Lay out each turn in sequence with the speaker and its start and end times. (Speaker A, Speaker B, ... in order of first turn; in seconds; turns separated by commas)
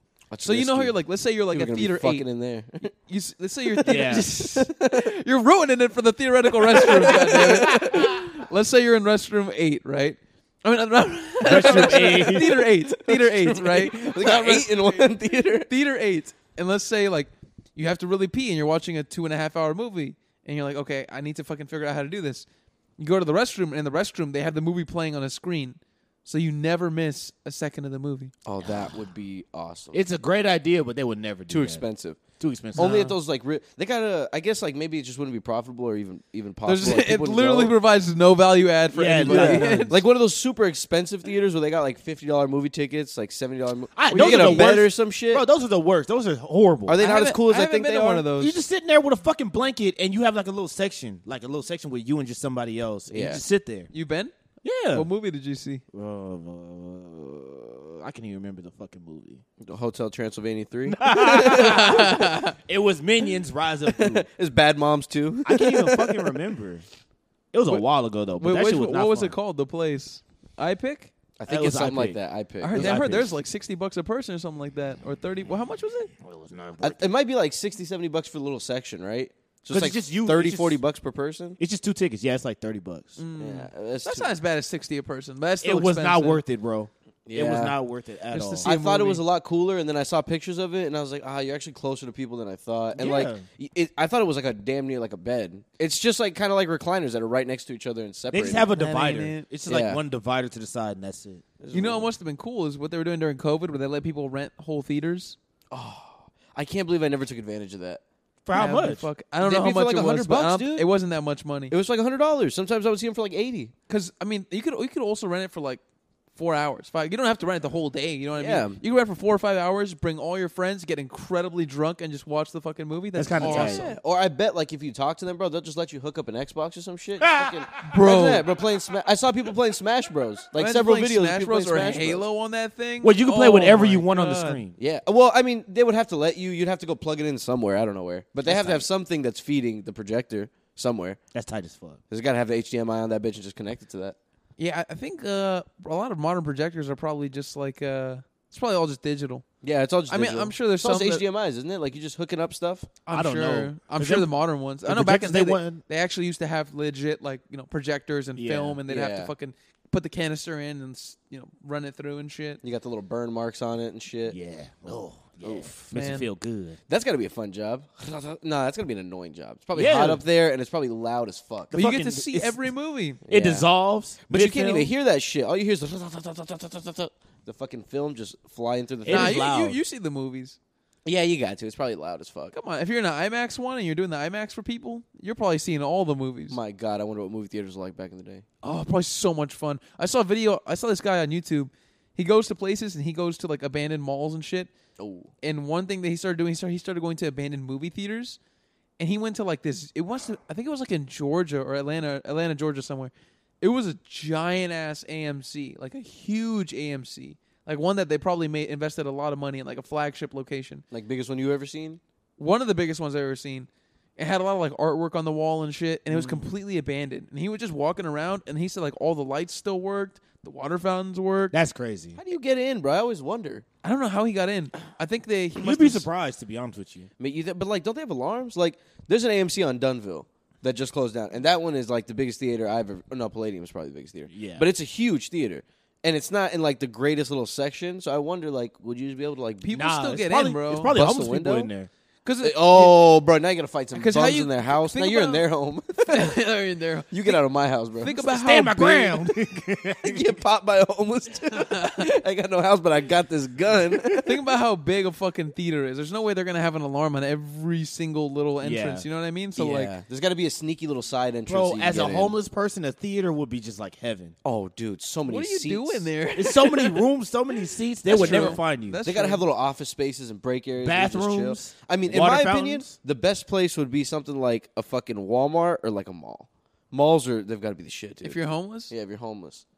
Speaker A: 0.3-1.0, Speaker B: 0.4-2.2, Speaker A: 1.5-2.9, Speaker B: 3.0-15.1, Speaker C: 3.9-4.3, Speaker A: 3.9-5.1, Speaker A: 6.7-8.2, Speaker C: 11.4-12.6, Speaker A: 11.5-15.7, Speaker B: 15.7-22.5, Speaker B: 23.0-28.3, Speaker A: 28.4-30.0, Speaker C: 29.9-31.8, Speaker A: 31.5-32.2, Speaker C: 32.4-33.1, Speaker A: 32.7-37.7, Speaker B: 32.8-33.1, Speaker B: 36.6-40.0, Speaker C: 38.9-40.0, Speaker A: 39.2-45.4, Speaker C: 44.0-47.0, Speaker B: 44.1-44.7, Speaker A: 46.9-48.5, Speaker B: 47.0-48.5, Speaker C: 48.3-53.9, Speaker A: 53.1-53.4, Speaker B: 53.9-54.3, Speaker C: 54.6-55.1, Speaker B: 54.9-55.8, Speaker C: 55.9-59.4, Speaker A: 59.6-62.3, Speaker C: 60.9-64.2, Speaker B: 61.4-62.5, Speaker A: 63.9-66.3, Speaker C: 65.4-66.8, Speaker C: 67.5-69.3, Speaker B: 68.4-71.1, Speaker A: 71.4-73.3, Speaker C: 71.5-72.2, Speaker B: 72.6-76.1, Speaker C: 72.7-73.3, Speaker C: 76.2-77.0, Speaker A: 76.8-81.6, Speaker C: 79.7-80.8, Speaker C: 81.6-83.2, Speaker B: 83.2-86.4, Speaker A: 83.4-84.3, Speaker C: 85.6-88.7, Speaker A: 87.3-87.8, Speaker B: 88.3-89.2, Speaker A: 88.6-98.7, Speaker C: 92.9-93.4, Speaker C: 98.3-101.4, Speaker B: 98.7-99.4, Speaker A: 99.7-100.0, Speaker A: 101.6-102.1, Speaker B: 101.7-105.4, Speaker A: 105.7-108.0, Speaker C: 108.4-109.0, Speaker B: 108.5-111.7, Speaker A: 109.4-110.9, Speaker A: 111.7-113.7, Speaker B: 113.9-115.8, Speaker B: 116.3-124.0, Speaker A: 118.3-118.8, Speaker C: 123.2-123.8, Speaker A: 123.4-132.2, Speaker C: 127.2-127.8, Speaker B: 127.8-128.4, Speaker B: 130.6-134.6, Speaker C: 133.0-134.7, Speaker A: 134.8-141.2, Speaker C: 138.4-138.8, Speaker C: 141.3-142.0, Speaker A: 142.1-144.2, Speaker B: 144.6-149.4, Speaker A: 149.6-152.9, Speaker B: 150.1-151.2, Speaker B: 153.0-162.6, Speaker C: 153.1-154.3, Speaker C: 154.8-155.8, Speaker C: 158.4-158.8, Speaker A: 158.9-159.3, Speaker A: 162.6-164.4, Speaker C: 164.3-166.8, Speaker A: 165.4-165.8, Speaker B: 165.9-166.3, Speaker A: 166.9-171.7, Speaker C: 169.8-170.2, Speaker C: 171.7-172.7, Speaker B: 171.7-173.2, Speaker C: 173.3-174.9, Speaker A: 173.3-173.7, Speaker A: 174.3-179.4, Speaker C: 179.0-179.8, Speaker B: 179.1-180.6, Speaker A: 181.0-182.5, Speaker B: 182.5-186.6, Speaker A: 186.5-188.4, Speaker B: 188.6-194.7, Speaker A: 195.0-195.3, Speaker B: 195.4-198.4, Speaker B: 199.0-210.8, Speaker A: 210.9-212.0, Speaker B: 212.4-221.6, Speaker A: 216.1-216.5, Speaker C: 221.5-222.2, Speaker A: 222.2-223.6, Speaker B: 223.8-226.1, Speaker C: 225.6-227.1, Speaker A: 227.2-239.7, Speaker C: 234.3-234.7, Speaker B: 239.6-240.9, Speaker C: 239.7-241.9, Speaker A: 240.9-241.7, Speaker B: 242.2-242.9, Speaker A: 242.4-246.4, Speaker B: 243.9-245.4, Speaker B: 246.1-247.4, Speaker A: 247.1-248.2, Speaker B: 248.0-249.2, Speaker C: 248.2-250.3, Speaker A: 250.0-254.3, Speaker B: 251.5-252.1, Speaker C: 253.9-254.2, Speaker B: 254.2-259.9, Speaker C: 258.6-259.0, Speaker A: 259.6-262.3, Speaker C: 261.5-264.3, Speaker A: 264.4-266.1, Speaker B: 265.3-267.0, Speaker C: 266.4-269.0, Speaker B: 268.1-269.4, Speaker A: 268.1-279.6, Speaker C: 270.8-272.9, Speaker B: 278.2-278.9